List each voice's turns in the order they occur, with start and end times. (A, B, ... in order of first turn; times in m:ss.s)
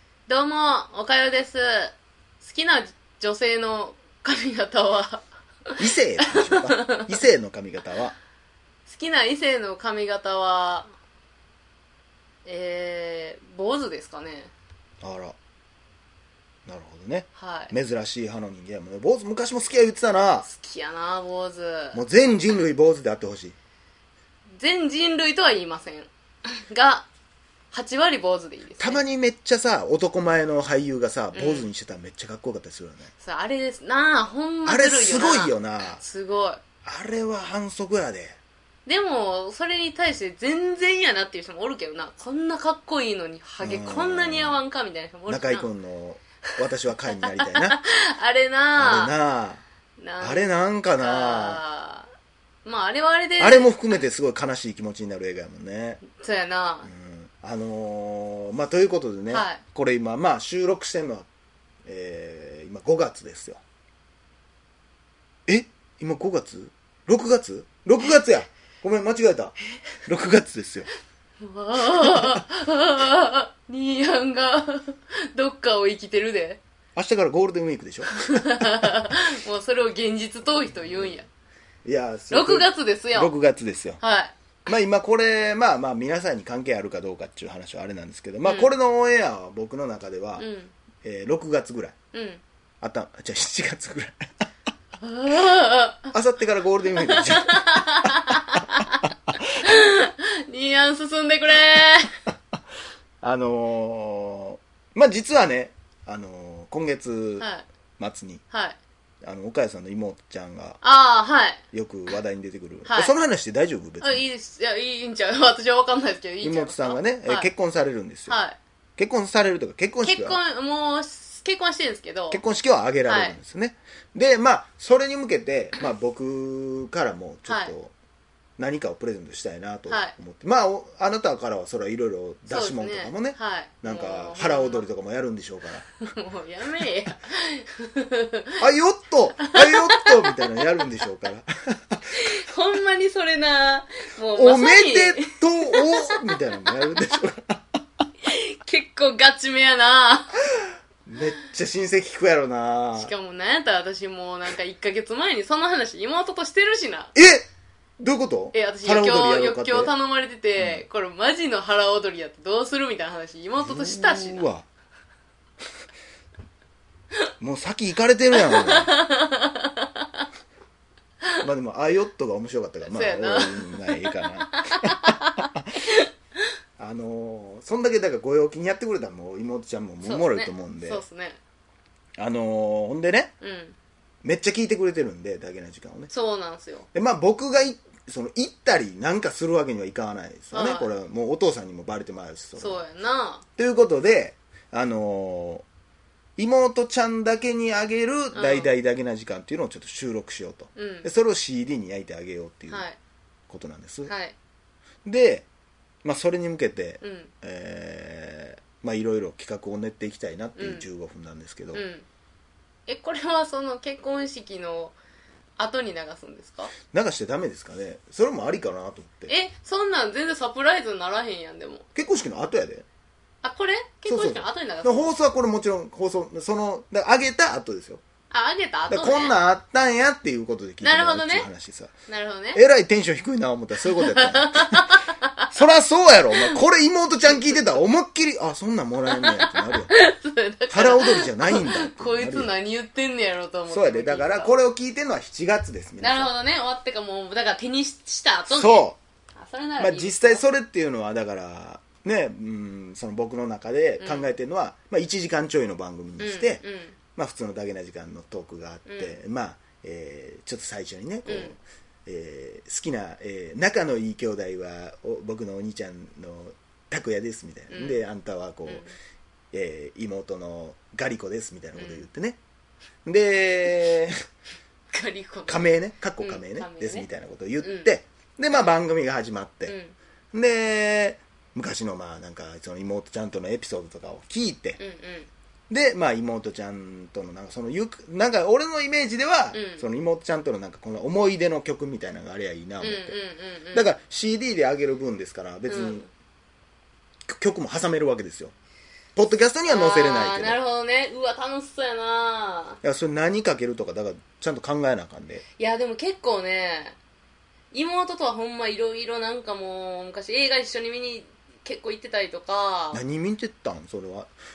0:00.3-0:05.2 A
0:05.8-0:08.2 B
0:06.2-0:07.1 A
0:08.9-0:10.9 A
0:12.4-0:14.5 A
0:15.0-0:15.4 B
0:16.7-0:20.5 B
0:17.4-0:17.7 A
0:20.4-0:22.0 A
0:21.9-0:23.6 B
0:24.6-0:27.1 A
0:27.7-0:29.0 A
0:28.8-0:33.1 B
0:31.3-0:31.7 A
0:33.2-0:36.6 A
0:34.7-0:36.0 B
0:36.8-0:38.4 B
0:38.9-0:45.7 A
0:43.6-0:44.6 B
0:45.3-0:47.8 B
0:47.1-0:49.1 A
0:48.8-0:49.6 B
0:50.0-0:50.5 A
0:50.2-0:51.6 B
0:51.0-0:52.1 A
0:52.6-0:54.0 A
0:53.4-0:56.0 B
0:56.1-0:56.9 A
0:56.8-1:01.3 B
0:59.3-0:59.6 A
1:01.9-1:03.6 B
1:05.5-1:09.6 B
1:10.1-1:10.9 B
1:11.4-1:16.6 A
1:12.0-1:12.4 B
1:17.0-1:18.9 B
1:18.2-1:21.3 A
1:20.8-1:21.1 B
1:21.8-1:24.0 B
1:22.3-1:23.3 A
1:24.0-1:24.3 A
1:24.7-1:30.5 B
1:28.4-1:28.7 A
1:30.4-1:30.7 A
1:31.0-1:32.0 B
1:32.1-1:32.4 A
1:32.8-1:34.3 B
1:35.0-1:36.1 A
1:36.1-1:38.2 B
1:36.9-1:39.0 A
1:39.6-1:42.2 A
1:43.2-1:47.5 B
1:47.4-1:47.7 A
1:48.0-1:48.4 B
1:48.5-1:48.8 A
1:49.2-1:50.8 B
1:50.8-1:51.6 A
1:51.7-1:54.2 B
1:52.9-1:53.1 A
1:54.0-1:57.5 A
1:56.4-1:58.4 B
1:58.3-1:58.6 A
1:59.0-2:00.4 B
2:00.0-2:02.4 A
2:02.3-2:07.9 B
2:03.1-2:03.4 A
2:07.5-2:07.8 A
2:08.6-2:16.0 B
2:09.9-2:10.1 A
2:12.5-2:14.9 A
2:16.0-2:18.5 A
2:18.6-2:22.2 B
2:19.4-2:20.4 A
2:22.1-2:26.4 A
2:24.4-2:27.6 B
2:28.2-2:30.4 A
2:31.1-2:33.1 B
2:33.0-2:37.1 A
2:37.2-2:37.4 B
2:38.0-2:39.9 B
2:38.5-2:44.5 A
2:40.6-2:40.8 B
2:43.6-2:44.7 B
2:47.4-2:48.9 B
2:48.3-2:50.3 A
2:51.4-2:55.7 B
2:52.9-2:56.1 A
2:56.8-3:01.0 B
3:00.0-3:01.4 A
3:02.2-3:03.3 B
3:03.4-3:03.8 A
3:04.2-3:06.1 B
3:06.1-3:06.9 A
3:06.9-3:12.8 B
3:10.5-3:10.9 A
3:12.6-3:13.4 A
3:13.6-3:15.6 B
3:16.4-3:22.8 B
3:18.4-3:18.7 A
3:20.8-3:21.1 A
3:22.7-3:23.0 A
3:23.5-3:24.1 B
3:24.1-3:24.4 A
3:25.0-3:25.5 B
3:26.0-3:31.8 B
3:27.0-3:27.3 A
3:30.6-3:30.9 A
3:31.7-3:32.0 A
3:32.9-3:35.0 A
3:35.6-3:36.7 A
3:36.9-3:39.3 B
3:39.3-3:41.8 A
3:42.0-3:42.8 B
3:43.4-3:45.1 A
3:44.1-3:48.0 B
3:48.3-3:49.4 A
3:48.9-3:51.9 B
3:50.8-3:51.5 A
3:52.1-3:52.6 A
3:52.5-3:54.9 B
3:53.8-3:55.4 A
3:55.5-3:59.9 B
3:59.1-4:04.6 A
4:00.7-4:02.5 B
4:03.7-4:06.3 B
4:06.0-4:08.9 A
4:08.5-4:09.0 B
4:09.4-4:10.4 A
4:09.8-4:16.6 B
4:14.0-4:14.3 A
4:16.2-4:17.0 A
4:17.2-4:28.8 B
4:18.9-4:19.2 A
4:21.3-4:21.6 A
4:27.7-4:28.0 A
4:28.7-4:28.9 A
4:29.5-4:32.4 B
4:31.8-4:32.1 A
4:33.0-4:34.2 B
4:34.9-4:37.1 A
4:35.5-4:39.8 B
4:37.6-4:37.9 A
4:39.7-4:40.0 A
4:40.3-4:44.8 B
4:44.8-4:45.3 A
4:45.7-4:53.2 B
4:49.5-4:49.8 A
4:52.8-4:53.9 A
4:53.7-4:56.0 B
4:55.7-4:56.1 A
4:57.3-4:58.5 B
4:59.2-5:00.6 B
4:59.7-5:02.8 A
5:02.8-5:05.4 B
5:05.6-5:07.0 A
5:07.7-5:13.0 A
5:12.9-5:14.3 B